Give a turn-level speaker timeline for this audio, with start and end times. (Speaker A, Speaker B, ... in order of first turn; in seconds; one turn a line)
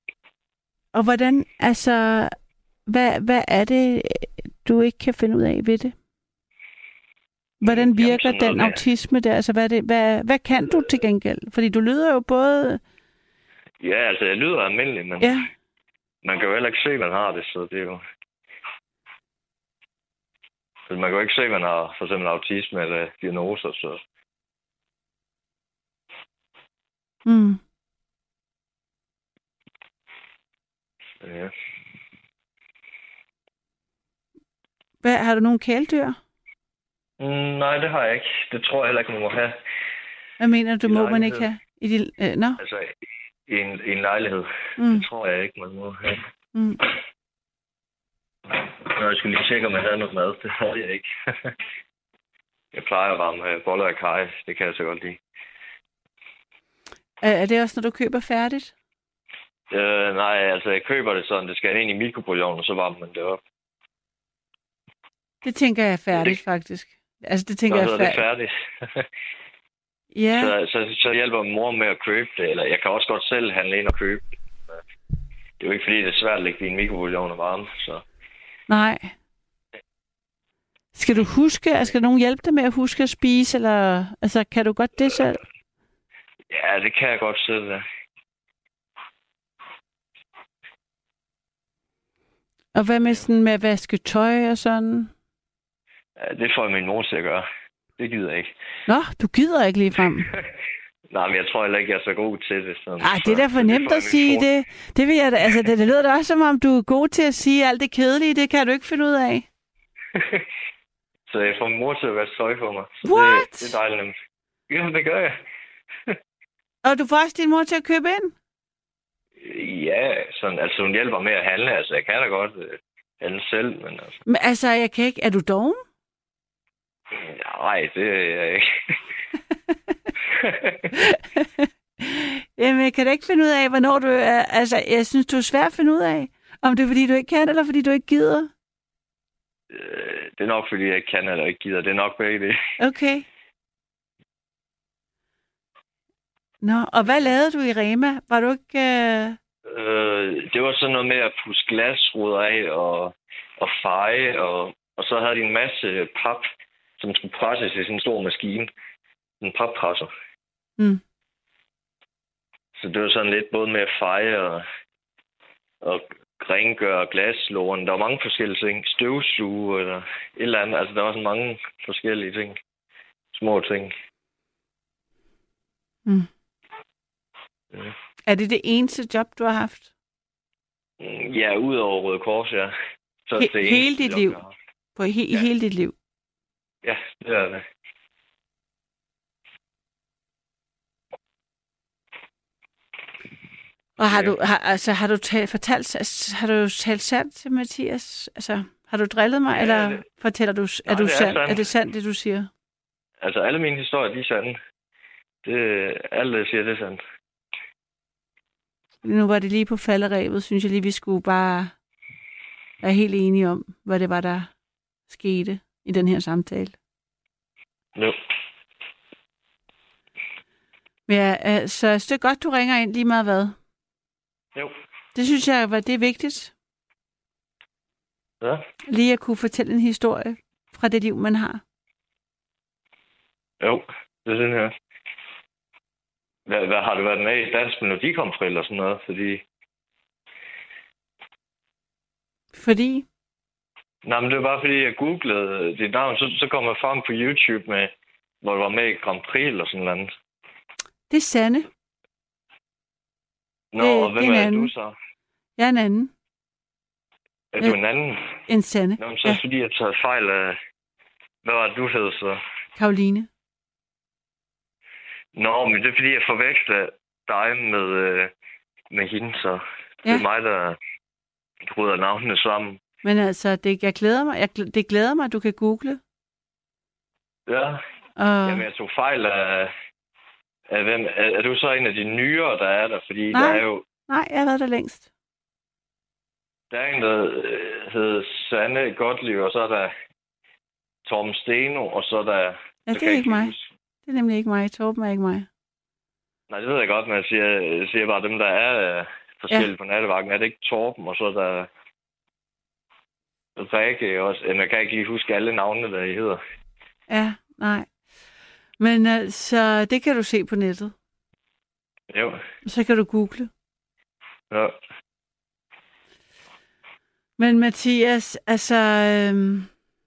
Speaker A: 0.9-2.4
Speaker A: 2.9-6.0
Speaker A: 7.6-12.8
Speaker B: 7.6-8.8
Speaker B: 13.8-15.3
Speaker A: 15.2-15.5
Speaker B: 16.2-18.0
Speaker B: 20.9-24.0
Speaker A: 27.2-27.6
Speaker B: 31.2-31.5
Speaker A: 35.0-36.2
Speaker B: 37.2-39.6
Speaker A: 40.4-42.6
Speaker B: 40.9-41.5
Speaker B: 42.6-42.9
Speaker B: 43.5-46.2
Speaker A: 44.8-45.1
Speaker A: 46.5-46.8
Speaker B: 48.5-51.5
Speaker B: 52.7-55.2
Speaker A: 57.2-58.7
Speaker B: 59.7-63.4
Speaker A: 65.4-68.2
Speaker B: 67.7-69.1
Speaker A: 70.1-70.5
Speaker B: 70.4-74.8
Speaker B: 75.6-78.0
Speaker A: 78.7-79.1
Speaker A: 81.0-85.4
Speaker B: 86.5-87.8
Speaker A: 92.8-95.1
Speaker B: 96.2-97.5
Speaker B: 98.0-98.5
Speaker A: 98.9-100.3
Speaker B: 101.1-104.4
Speaker A: 103.0-109.5
Speaker B: 110.1-110.5
Speaker B: 111.3-114.2
Speaker A: 113.0-113.8
Speaker B: 114.7-115.3
Speaker A: 116.8-118.3
Speaker B: 119.4-124.2
Speaker A: 124.3-125.8
Speaker B: 127.2-128.7
Speaker B: 130.3-130.9
Speaker A: 130.9-138.5
Speaker B: 139.7-142.6
Speaker A: 142.8-143.3
Speaker A: 146.6-149.4
Speaker B: 149.7-156.4
Speaker B: 157.0-158.7
Speaker B: 159.4-160.1
Speaker B: 162.8-164.6
Speaker B: 165.8-172.6
Speaker B: 173.3-173.9
Speaker A: 178.3-179.9
Speaker B: 181.0-182.7
Speaker B: 183.3-184.5
Speaker A: 183.4-184.4
Speaker A: 185.0-185.9
Speaker B: 186.8-187.6
Speaker A: 194.0-202.5
Speaker B: 199.6-200.0
Speaker B: 200.9-201.6
Speaker B: 203.2-204.6
Speaker B: 205.4-207.0
Speaker A: 209.0-211.7
Speaker A: 212.8-214.5
Speaker A: 215.1-216.8
Speaker A: 221.1-223.6
Speaker A: 225.2-226.5
Speaker A: 228.9-231.6
Speaker B: 233.6-234.7
Speaker B: 236.5-239.4
Speaker A: 242.5-243.1
Speaker B: 244.1-250.1
Speaker A: 251.1-251.7
Speaker B: 253.7-254.9
Speaker A: 253.8-254.7
Speaker A: 255.6-256.1
Speaker B: 257.5-258.4
Speaker A: 258.5-259.4
Speaker B: 259.0-260.6
Speaker B: 261.4-262.4
Speaker A: 262.8-263.3
Speaker B: 265.4-268.3
Speaker B: 268.9-270.8
Speaker B: 271.6-272.8
Speaker A: 273.0-276.0
Speaker B: 277.5-277.8
Speaker A: 278.2-278.7
Speaker B: 278.4-279.7
Speaker B: 280.7-283.9
Speaker A: 283.3-285.1
Speaker B: 286.7-289.9
Speaker B: 291.1-293.7
Speaker A: 292.9-293.5
Speaker A: 294.1-295.5
Speaker B: 296.5-301.7
Speaker B: 303.6-306.4
Speaker A: 307.1-307.9
Speaker A: 308.8-310.9
Speaker B: 312.1-312.4
Speaker A: 312.6-313.5
Speaker B: 314.5-314.8
Speaker A: 317.4-319.7